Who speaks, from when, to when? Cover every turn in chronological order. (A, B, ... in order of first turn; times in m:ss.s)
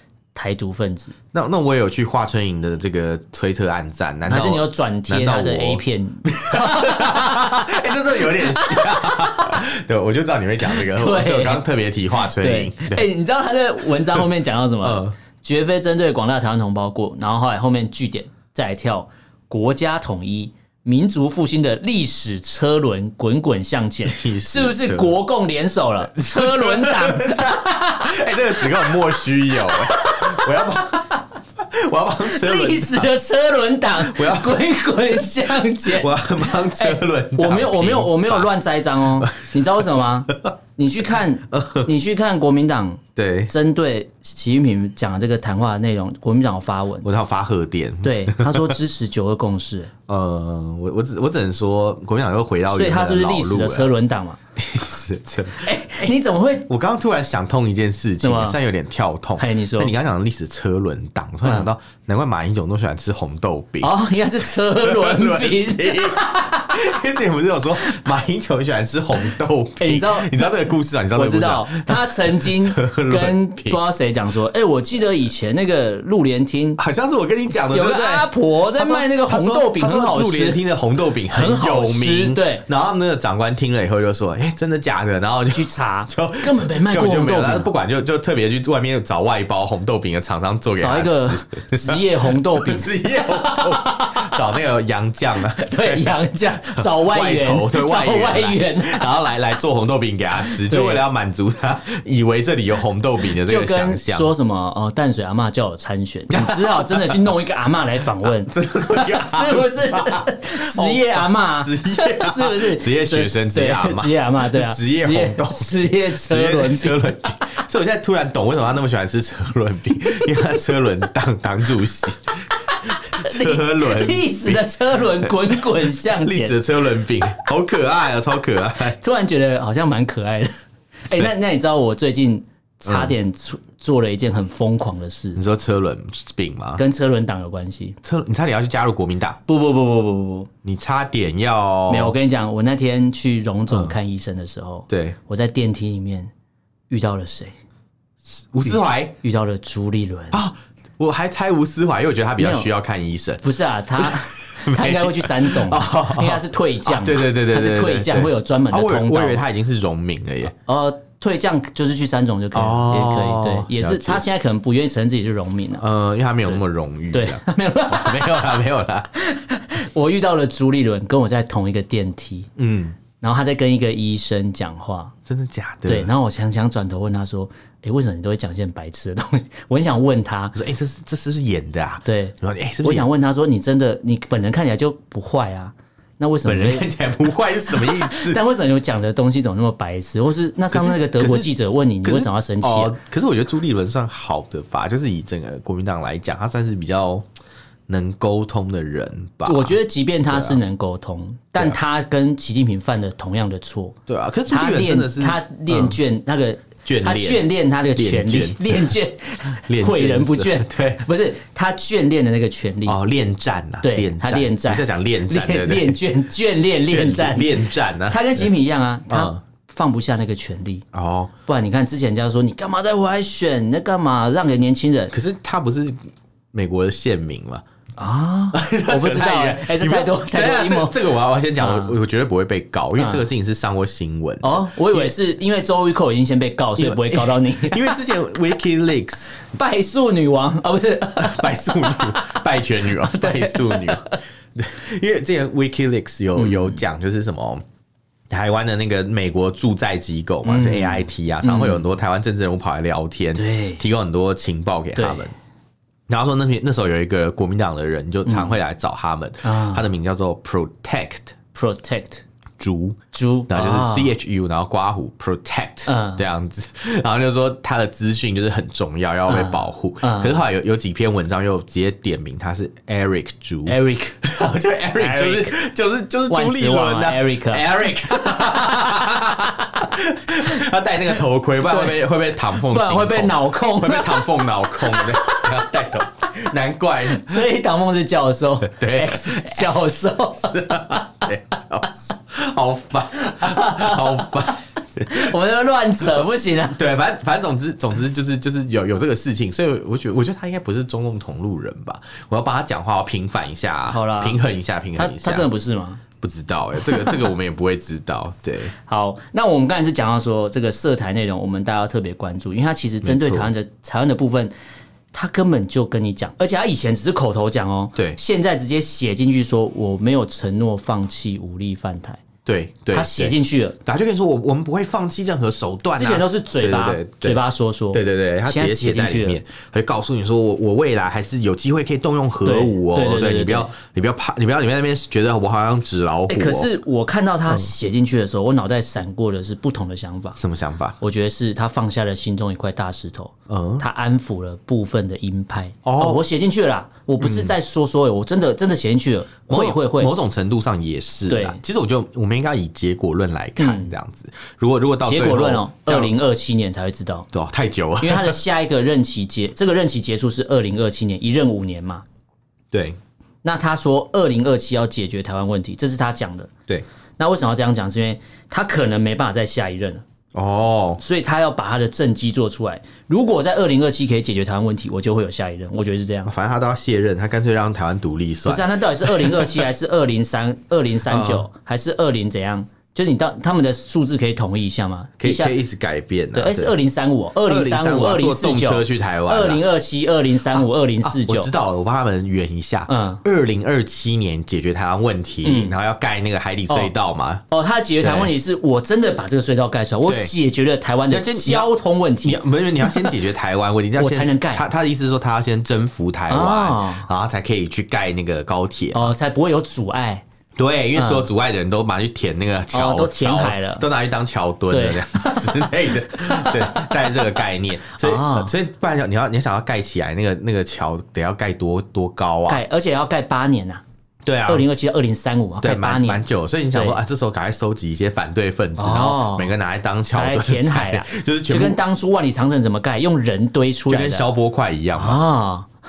0:00.4-0:01.2 A
0:01.3-0:13.1 B
0:04.3-0:07.6 A
0:08.2-0:09.6 A
0:10.7-0:11.6 A
0:12.3-0:31.2 A
0:13.8-0:14.3 B
0:14.8-0:15.1 B
0:24.1-0:25.2 B
0:26.0-0:33.1 B
0:32.3-0:47.1 A
0:34.0-0:35.3 B
0:35.8-0:38.5 B
0:39.2-0:40.5 B
0:41.5-0:41.9 B
0:43.2-0:43.5 B
0:47.0-0:48.8 B
0:48.0-0:49.9 A
0:50.1-0:53.9 B
0:52.7-0:54.4 A
0:54.6-0:56.2 B
0:55.5-0:56.7 A
0:56.7-1:13.8 B
0:58.2-0:58.6 A
0:59.4-0:59.9 A
1:03.8-1:07.0 A
1:09.3-1:16.8 A
1:16.8-1:44.3 B
1:17.7-1:20.6 A
1:21.3-1:22.6 A
1:25.5-1:27.7 A
1:30.8-1:34.4 A
1:35.6-1:39.1 A
1:40.5-1:41.0 A
1:43.4-1:57.6 A
1:46.3-1:47.3 B
1:48.2-2:09.0 B
2:02.6-2:06.6 A
2:08.9-2:10.6 A
2:11.1-2:15.4 A
2:12.9-2:13.2 B
2:15.4-2:16.8 B
2:16.8-2:18.0 A
2:18.0-2:19.4 B
2:19.5-2:20.5 A
2:20.6-2:22.2 B
2:21.9-2:26.3 A
2:23.7-2:24.0 B
2:24.9-2:25.2 B
2:26.9-2:27.5 A
2:28.4-2:29.2 B
2:28.6-2:30.4 A
2:30.3-2:33.4 B
2:32.4-2:32.7 A
2:33.4-2:39.4 A
2:34.0-2:40.6 B
2:40.7-2:45.8 A
2:42.6-2:44.2 B
2:45.8-2:49.1 B
2:47.1-2:48.6 A
2:49.2-2:52.5 A
2:52.6-2:53.0 B
2:53.2-2:55.2 A
2:55.3-2:56.1 B
2:55.9-3:00.6 A
3:00.6-3:03.1 B
3:02.0-3:06.9 A
3:06.4-3:08.4 B
3:07.7-3:13.0 A
3:10.7-3:11.5 B
3:12.0-3:17.3 B
3:17.9-3:20.6 B
3:19.4-3:33.0 A
3:24.1-3:26.0 B
3:26.8-3:29.0 B
3:29.7-3:31.0 B
3:32.9-3:36.0 B
3:33.8-3:40.8 A
3:36.8-3:38.5 B
3:39.1-3:39.4 B
3:40.9-3:41.3 B
3:41.5-3:45.1 A
3:45.1-3:46.0 B
3:46.5-3:47.6 B
3:48.0-3:51.0 A
3:48.5-3:55.2 B
3:51.6-3:52.0 A
3:53.0-3:53.2 A
3:54.4-3:58.0 A
3:56.8-3:59.3 B
3:59.4-4:04.2 A
4:01.2-4:07.6 B
4:06.4-4:06.8 A
4:08.3-4:15.3 B
4:10.4-4:11.8 A
4:13.4-4:13.8 A
4:15.0-4:15.3 A
4:16.1-4:21.4 B
4:18.3-4:18.6 A
4:19.4-4:19.9 A
4:21.5-4:22.2 A
4:22.6-4:47.4 B
4:23.1-4:24.1 A
4:25.9-4:26.2 A
4:29.3-4:30.4 A
4:33.7-4:34.2 A
4:35.0-4:35.6 A
4:36.3-4:39.9 A
4:41.6-4:45.9 A
4:47.0-4:50.8 A
4:48.6-4:49.8 B
4:50.4-4:55.3 B
4:53.2-4:54.5 A
4:55.0-4:56.8 A
4:56.0-5:05.5 B
5:03.9-5:04.4 A
5:05.0-5:06.0 A
5:06.2-5:08.7 B
5:06.8-5:07.3 A
5:08.8-5:14.5 A
5:13.0-5:13.5 B
5:15.1-5:22.2 A
5:22.4-5:27.4 B
5:22.9-5:23.8 A
5:26.0-5:29.4 A
5:27.9-5:36.7 B
5:32.4-5:33.7 A
5:36.3-5:40.4 A
5:40.4-5:41.0 B
5:41.0-5:50.1 A
5:43.5-5:43.8 B
5:45.8-5:46.2 B
5:47.2-5:47.6 B
5:49.5-5:56.2 B
5:51.3-5:51.6 A
5:53.6-5:54.0 A
5:55.0-5:57.3 A
5:57.3-5:58.4 B
5:58.0-6:02.0 A
6:02.7-6:03.0 B
6:03.4-6:06.5 A
6:07.2-6:10.0 A
6:10.3-6:11.0 B
6:11.0-6:16.3 A
6:16.3-6:19.7 B
6:18.4-6:25.6 A
6:21.1-6:21.5 B
6:25.2-6:26.8 B
6:26.3-6:31.5 A
6:27.5-6:29.6 B
6:30.5-6:37.4 B
6:32.9-6:33.2 A
6:35.4-6:35.8 A
6:37.5-6:43.2 A
6:38.0-6:38.3 B
6:40.1-6:40.3 B
6:41.1-6:41.7 B
6:42.2-6:49.1 B
6:44.0-6:44.7 A
6:46.3-6:47.1 A
6:48.9-6:50.2 A
6:50.6-7:02.6 B
6:51.0-6:51.3 A
6:52.7-6:53.9 A
6:54.7-6:57.3 A
6:58.0-6:58.5 A
7:02.5-7:03.8 A
7:04.2-7:04.7 B
7:04.5-7:07.0 A
7:05.6-7:11.8 B
7:08.8-7:09.5 A
7:10.1-7:14.3 A
7:13.9-7:15.2 B
7:15.0-7:15.7 A